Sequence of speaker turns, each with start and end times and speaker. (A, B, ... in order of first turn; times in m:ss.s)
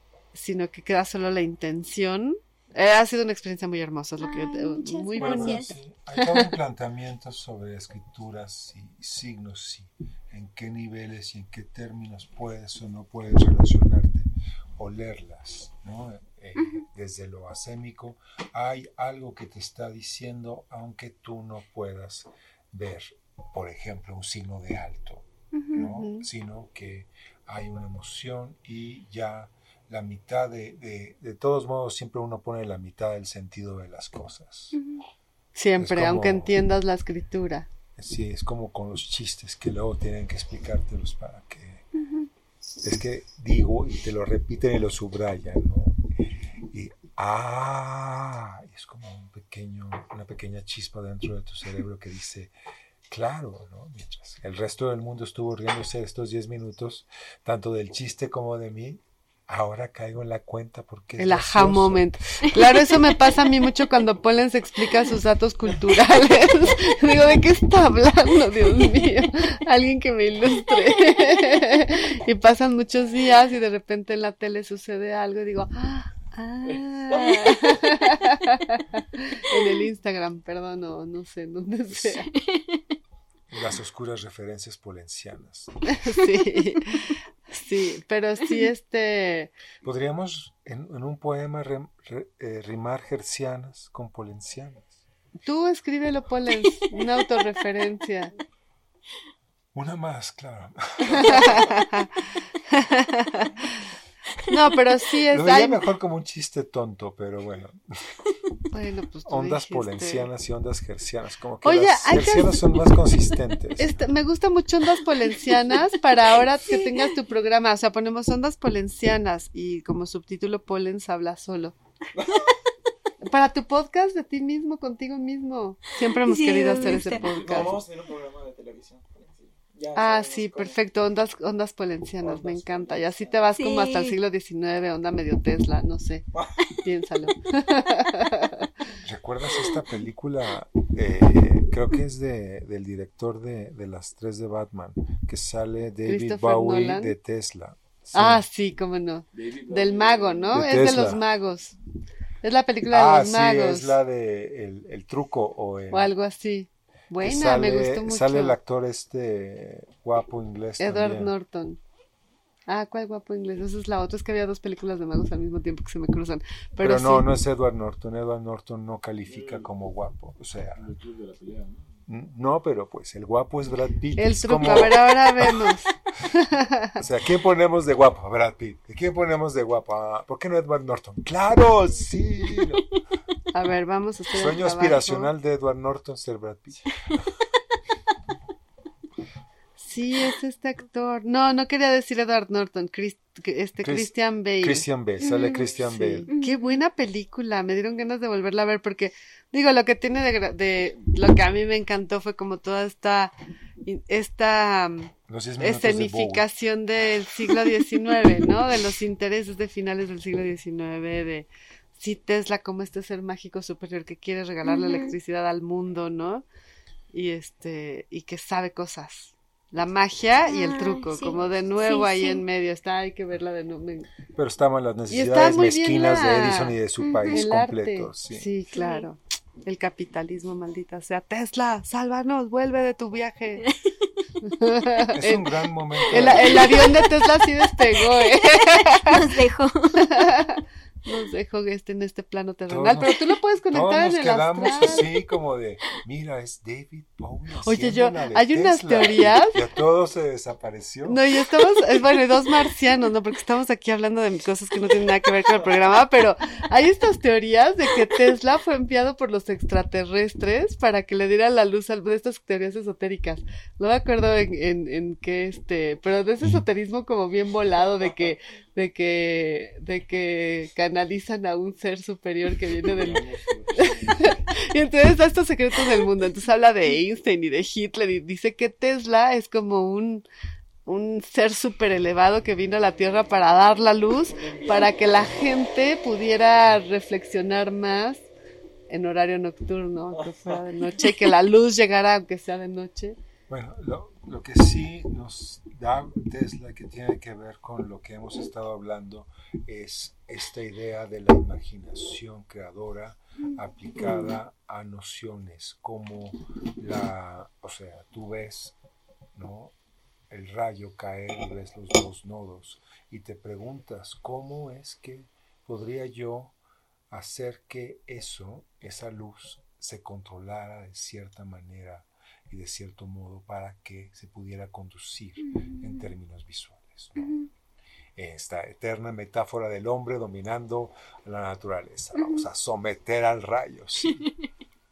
0:00.3-0:06.5 A
0:04.2-0:05.7 B
0:05.2-0:34.8 C
0:16.6-0:16.8 B
0:25.5-0:25.9 B
0:25.9-0:26.3 A
0:34.7-0:35.0 B
0:35.6-0:37.7 A
0:35.8-0:36.6 C
0:38.0-0:41.8 C
0:42.0-0:42.3 B
0:42.8-0:46.0 C
0:46.6-0:52.5 C
0:53.1-1:02.1 C
1:01.2-1:22.3 A
1:17.1-1:17.8 B
1:21.9-1:22.2 C
1:22.3-1:22.9 B
1:23.5-1:25.7 C
1:25.9-1:29.5 A
1:29.8-1:35.0 C
1:35.4-1:38.3 A
1:39.7-1:41.7 C
1:41.1-1:43.8 A
1:44.5-1:45.8 A
1:45.3-1:48.1 C
1:48.7-1:50.3 A
1:49.3-1:54.0 C
1:51.6-1:52.7 A
1:53.8-2:01.7 A
1:56.7-1:57.1 B
2:02.2-2:02.5 D
2:03.2-2:07.8 A
2:06.2-2:07.3 B
2:07.1-2:10.8 D
2:10.0-2:16.2 A
2:12.2-2:13.4 D
2:13.6-2:14.2 B
2:16.4-2:16.7 D
2:16.8-2:18.7 A
2:19.0-2:28.4 C
2:26.1-2:27.2 A
2:28.1-2:31.8 A
2:29.3-2:30.5 E
2:30.5-2:31.2 C
2:32.4-2:34.0 A
2:32.8-2:36.1 C
2:35.9-2:38.6 A
2:37.2-2:41.3 C
2:40.8-2:41.8 A
2:42.7-2:47.3 A
2:46.8-2:50.9 C
2:49.3-2:49.7 E
2:50.8-2:52.0 E
2:52.1-2:55.8 C
2:54.2-2:57.0 A
2:57.0-3:02.8 C
3:03.5-3:05.3 A
3:04.3-3:06.9 C
3:09.8-3:36.4 A
3:13.8-3:16.3 C
3:15.2-3:15.6 B
3:16.3-3:16.8 B
3:25.3-3:26.5 C
3:34.6-3:35.1 B
3:37.1-3:44.1 A
3:40.5-3:42.4 B
3:44.3-3:48.5 C
3:45.1-3:46.8 A
3:47.0-3:47.4 B
3:47.3-3:53.7 A
3:48.7-3:49.0 B
3:54.4-3:55.5 A
3:55.1-3:57.0 C
3:56.1-3:59.3 A
3:58.7-4:00.1 B
4:00.0-4:05.1 A
4:02.7-4:11.2 C
4:07.6-4:09.6 A
4:11.1-4:40.2 A
4:32.8-4:34.5 E
4:40.9-4:48.3 A
4:48.9-4:53.2 A
4:53.5-5:08.8 C
5:09.4-5:09.7 C
5:10.3-5:16.6 C
5:17.1-5:27.4 C
5:25.4-5:26.1 B
5:27.2-5:27.5 B
5:28.2-5:34.2 C
5:32.2-5:32.4 B
5:34.1-5:34.4 B